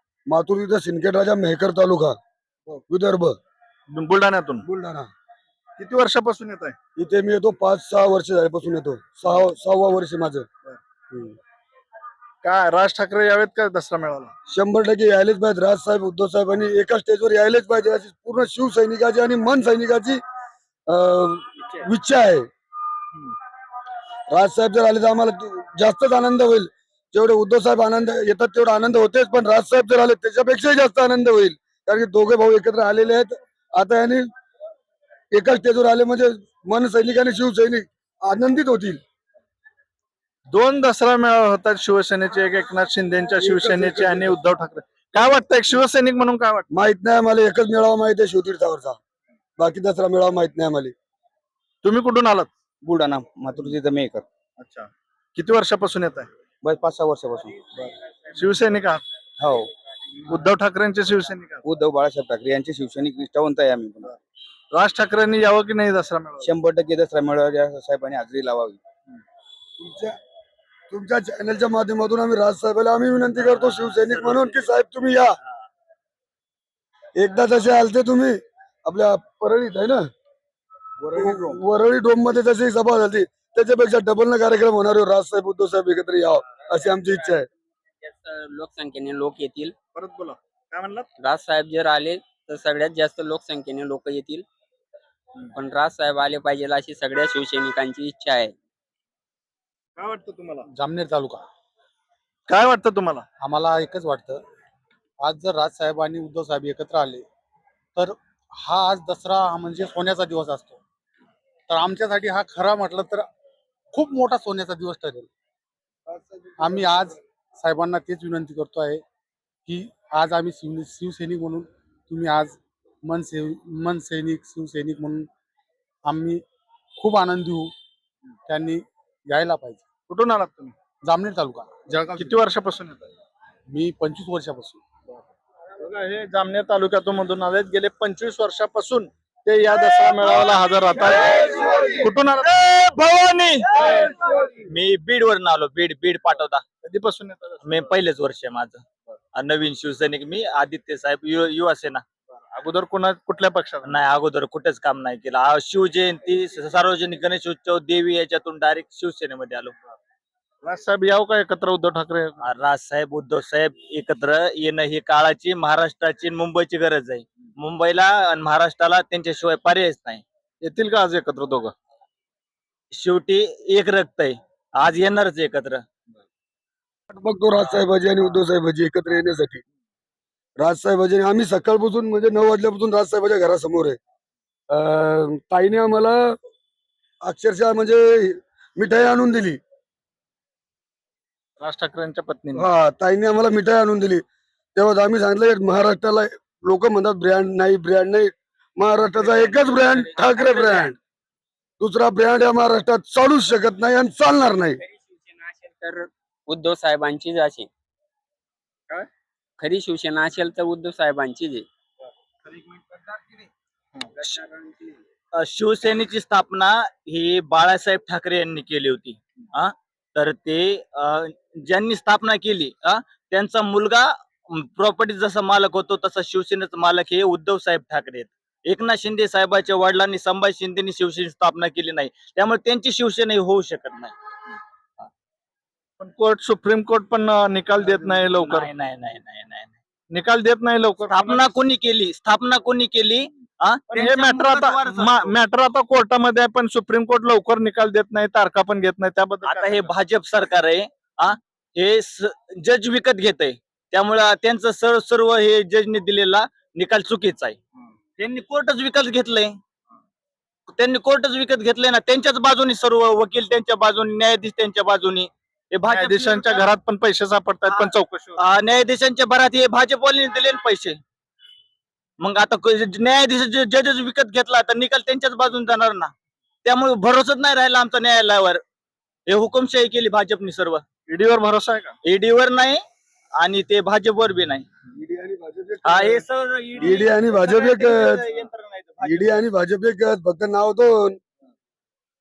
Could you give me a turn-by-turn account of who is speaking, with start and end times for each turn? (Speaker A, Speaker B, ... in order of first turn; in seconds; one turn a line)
Speaker A: 0.3-2.2
Speaker A: 2.7-3.4
Speaker B: 3.9-4.7
Speaker A: 4.7-5.1
Speaker B: 5.8-6.8
Speaker A: 7.0-10.5
Speaker A: 11.1-11.4
Speaker B: 12.4-14.3
Speaker A: 14.5-20.2
Speaker A: 20.9-22.5
Speaker A: 24.3-34.3
Speaker A: 35.3-39.0
Speaker B: 40.5-46.7
Speaker A: 43.4-44.4
Speaker A: 46.7-49.0
Speaker A: 49.6-50.9
Speaker B: 51.8-52.5
Speaker C: 52.8-54.2
Speaker B: 54.6-56.3
Speaker C: 56.6-57.7
Speaker B: 58.4-59.0
Speaker C: 59.4-59.7
Speaker B: 60.3-61.6
Speaker C: 61.6-64.2
Speaker B: 64.7-66.5
Speaker C: 66.4-68.8
Speaker A: 69.8-70.2
Speaker A: 70.9-75.4
Speaker A: 77.2-80.1
Speaker C: 81.0-81.6
Speaker A: 81.2-87.5
Speaker D: 88.0-89.8
Speaker B: 90.0-91.1
Speaker D: 91.2-94.5
Speaker D: 95.5-98.5
Speaker B: 100.0-100.7
Speaker E: 100.7-101.4
Speaker B: 102.5-103.2
Speaker E: 103.4-104.4
Speaker E: 105.2-107.2
Speaker E: 108.0-110.8
Speaker E: 111.7-113.3
Speaker E: 113.9-115.3
Speaker E: 116.6-119.0
Speaker E: 119.7-125.3
Speaker E: 126.1-126.4
Speaker E: 127.0-127.7
Speaker E: 128.5-129.8
Speaker B: 130.1-130.8
Speaker E: 131.1-132.4
Speaker B: 132.2-133.1
Speaker E: 133.7-134.8
Speaker B: 135.8-142.5
Speaker F: 141.1-141.9
Speaker F: 142.4-146.6
Speaker B: 146.8-147.9
Speaker F: 147.6-148.8
Speaker F: 149.3-152.0
Speaker B: 152.5-154.0
Speaker F: 153.8-159.8
Speaker B: 160.6-162.4
Speaker F: 162.4-170.2
Speaker B: 170.6-171.7
Speaker F: 172.9-175.8
Speaker A: 177.1-179.6
Speaker A: 180.6-184.0
Speaker A: 184.7-186.4
Speaker A: 187.2-189.6
Speaker B: 191.6-192.7
Speaker A: 192.6-194.2
Speaker A: 194.8-201.0
Speaker D: 199.2-200.9
Speaker A: 201.8-204.8
Speaker D: 204.8-207.7
Speaker D: 208.9-211.7
Speaker D: 214.2-214.9
Speaker F: 215.4-234.2
Speaker B: 236.0-238.7
Speaker F: 237.9-239.7
Speaker B: 240.1-241.5
Speaker F: 241.1-245.3
Speaker B: 243.9-249.9
Speaker F: 249.4-257.6
Speaker F: 258.2-259.6
Speaker F: 260.8-266.6
Speaker B: 265.9-268.4
Speaker F: 267.7-271.0
Speaker F: 272.2-276.1
Speaker F: 276.6-278.6
Speaker F: 279.3-280.8
Speaker B: 281.1-282.0
Speaker F: 282.0-282.8
Speaker F: 283.4-284.7
Speaker A: 284.9-286.2
Speaker F: 285.9-289.3
Speaker A: 286.8-288.3
Speaker A: 289.0-291.2